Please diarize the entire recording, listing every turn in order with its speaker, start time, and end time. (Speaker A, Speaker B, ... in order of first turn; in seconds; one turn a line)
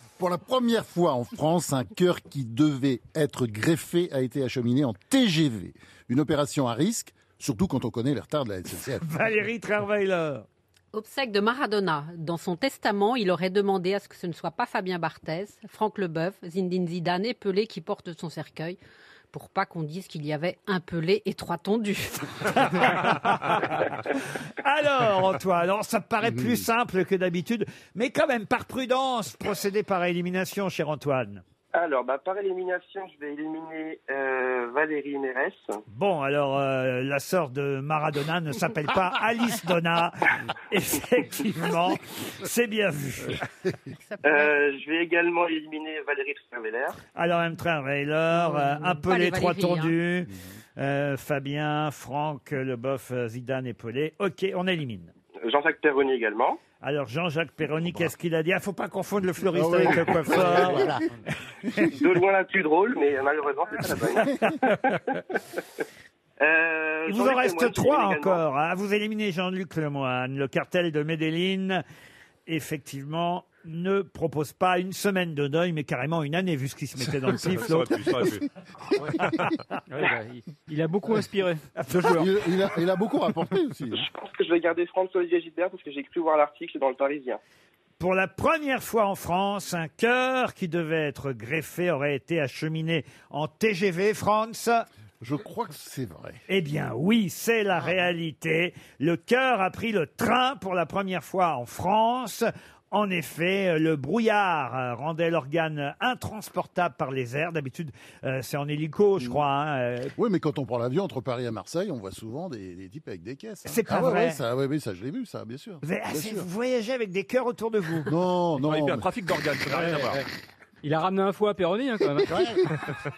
Speaker A: 0.2-9.1
Speaker B: 9.0-10.5
Speaker C: 10.9-18.8
Speaker C: 19.3-22.5
Speaker B: 22.5-23.8
Speaker B: 24.6-31.4
Speaker A: 26.2-26.6
Speaker D: 31.7-35.8
Speaker B: 35.9-43.4
Speaker C: 44.1-44.5
Speaker D: 44.2-47.0
Speaker B: 47.1-55.1
Speaker C: 48.3-50.0
Speaker D: 55.5-56.6
Speaker B: 56.8-60.9
Speaker A: 59.5-61.0
Speaker A: 61.8-62.0
Speaker D: 61.8-65.2
Speaker D: 66.4-68.4
Speaker B: 67.1-71.8
Speaker B: 72.5-78.3
Speaker E: 77.3-78.5
Speaker F: 79.9-81.7
Speaker B: 81.8-82.3
Speaker A: 81.9-84.1
Speaker D: 83.9-87.4
Speaker B: 88.0-94.9
Speaker A: 95.2-96.4
Speaker B: 96.5-110.1
Speaker A: 110.2-116.5
Speaker B: 113.7-114.4
Speaker B: 115.8-118.1
Speaker A: 118.1-119.1
Speaker E: 118.6-120.2
Speaker F: 119.7-120.2
Speaker F: 120.8-122.5
Speaker A: 122.2-122.8